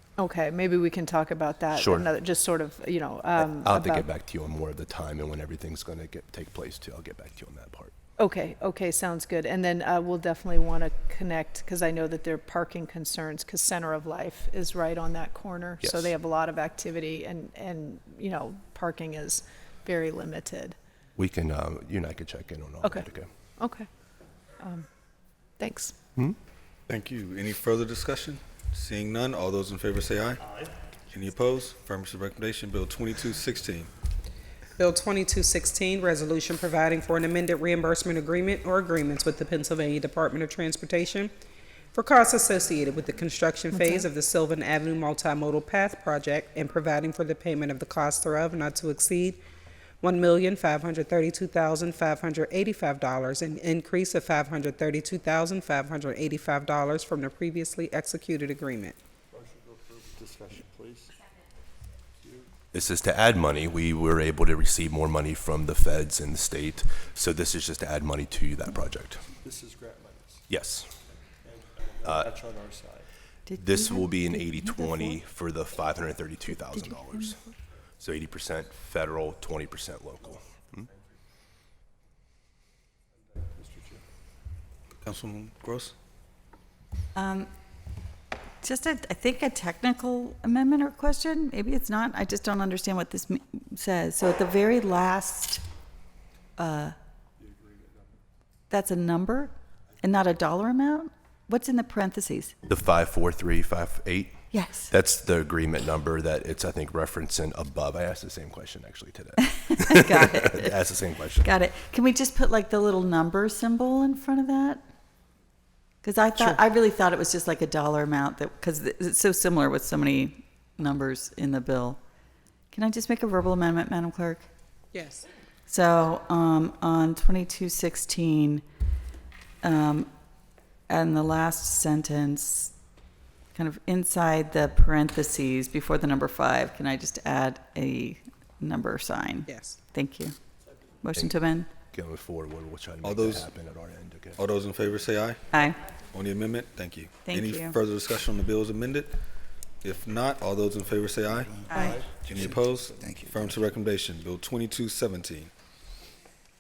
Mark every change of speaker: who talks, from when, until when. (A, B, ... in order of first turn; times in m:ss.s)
0:00.2-0:04.0 A
0:01.7-0:02.1 B
0:03.4-0:07.9 B
0:08.2-0:20.8 A
0:15.8-0:16.1 B
0:21.2-0:23.3 B
0:23.6-0:23.9 A
0:24.6-0:24.8 A
0:25.6-0:25.9 A
0:26.9-0:30.4 C
0:31.1-0:33.9 C
0:34.8-0:41.3 D
0:41.9-0:49.4 D
0:50.0-0:59.0 D
0:59.3-1:01.1 E
1:02.7-1:09.2 B
1:09.4-1:10.4 E
1:10.5-1:10.9 B
1:11.5-1:13.1 E
1:12.0-1:12.3 B
1:13.5-1:15.2 F
1:13.6-1:17.4 B
1:16.7-1:17.4 F
1:18.0-1:20.9 B
1:23.6-1:24.0 E
1:25.0-1:25.9 C
1:27.2-1:27.5 F
1:28.6-1:35.6 F
1:36.6-1:36.9 F
1:38.7-1:42.5 F
1:42.7-1:51.5 B
1:44.5-1:44.9 F
1:49.7-1:50.8 F
1:51.4-1:54.9 F
1:56.0-2:02.0 F
2:02.7-2:04.5 F
2:04.9-2:05.2 D
2:05.7-2:08.6 F
2:09.6-2:10.1 F
2:10.9-2:12.7 F
2:13.5-2:20.4 F
2:19.4-2:19.8 D
2:21.0-2:21.7 F
2:21.9-2:24.4 B
2:23.0-2:23.5 C
2:24.4-2:25.5 C
2:25.5-2:25.8 F
2:26.0-2:29.2 C
2:27.2-2:27.8 F
2:29.8-2:35.5 C
2:31.7-2:32.0 F